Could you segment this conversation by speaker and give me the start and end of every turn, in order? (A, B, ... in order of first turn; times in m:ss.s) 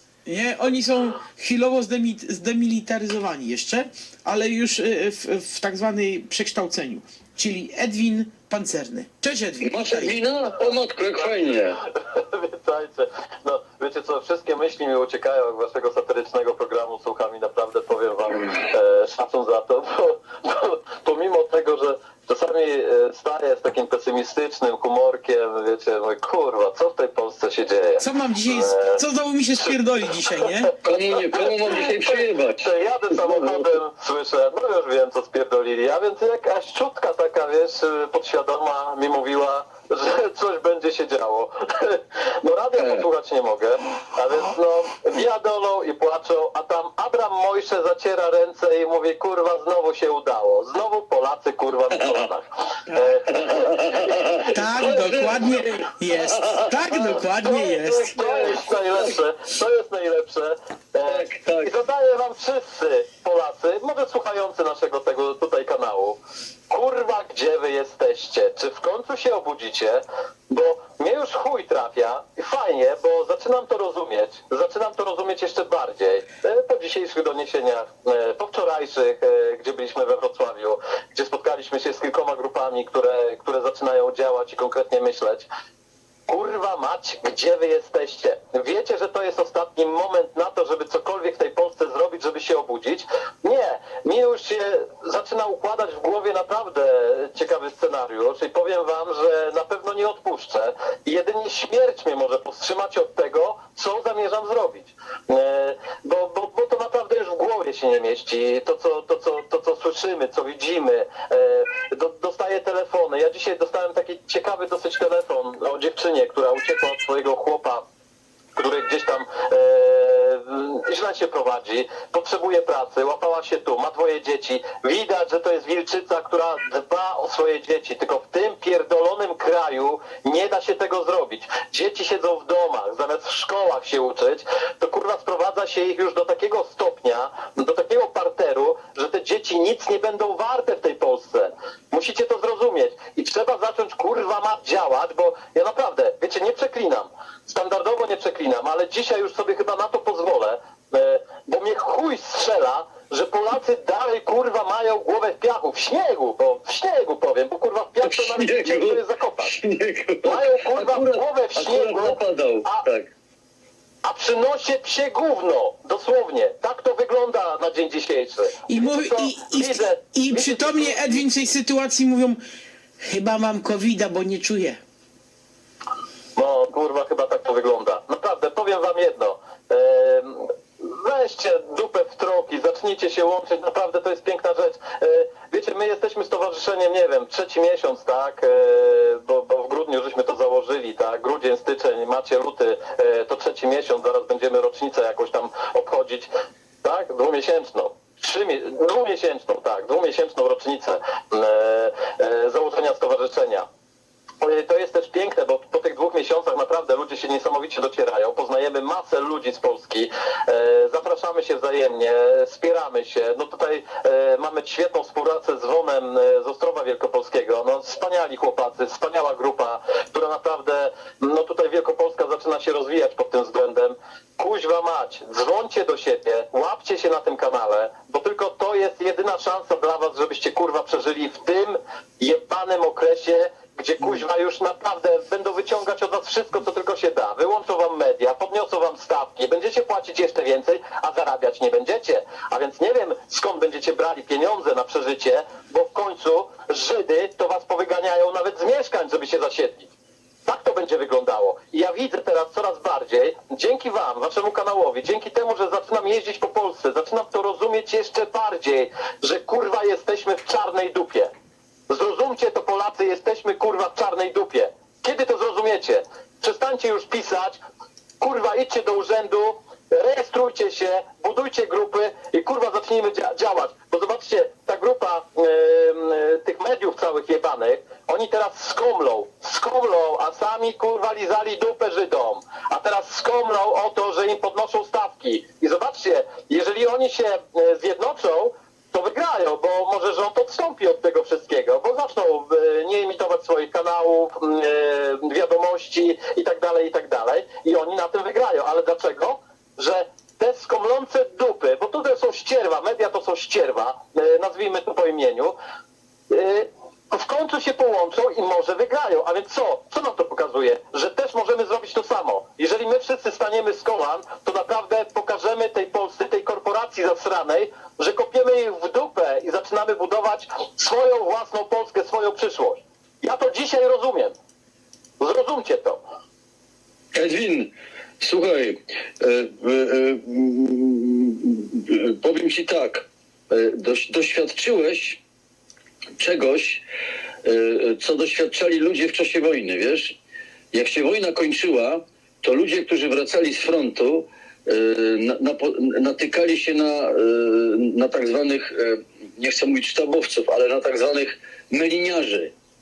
0:00.3-0:10.2 A
0:09.6-0:11.8 B
0:11.2-0:29.0 C
0:28.0-0:30.7 A
0:30.8-0:33.7 B
0:31.2-0:54.5 C
0:42.8-0:43.1 B
0:51.9-0:52.3 B
0:53.3-0:56.7 B
0:54.4-0:58.2 A
0:56.9-1:06.2 C
0:58.1-0:59.2 B
1:01.1-1:01.7 B
1:06.7-1:25.5 C
1:26.3-1:57.8 C
1:58.6-2:39.6 C
2:38.0-2:43.1 B
2:40.2-2:42.9 C
2:44.0-2:51.2 C
2:48.7-2:52.4 A
2:53.0-2:54.8 A
2:56.4-3:16.3 C
3:16.8-3:23.7 C
3:24.4-4:09.9 C
4:10.5-4:21.3 C
4:21.9-4:27.6 C
4:28.2-5:05.5 C
5:06.3-5:24.4 C
5:25.2-5:26.0 C
5:27.1-5:35.2 B
5:36.2-5:36.8 B
5:37.4-5:40.2 B
5:40.7-5:52.5 B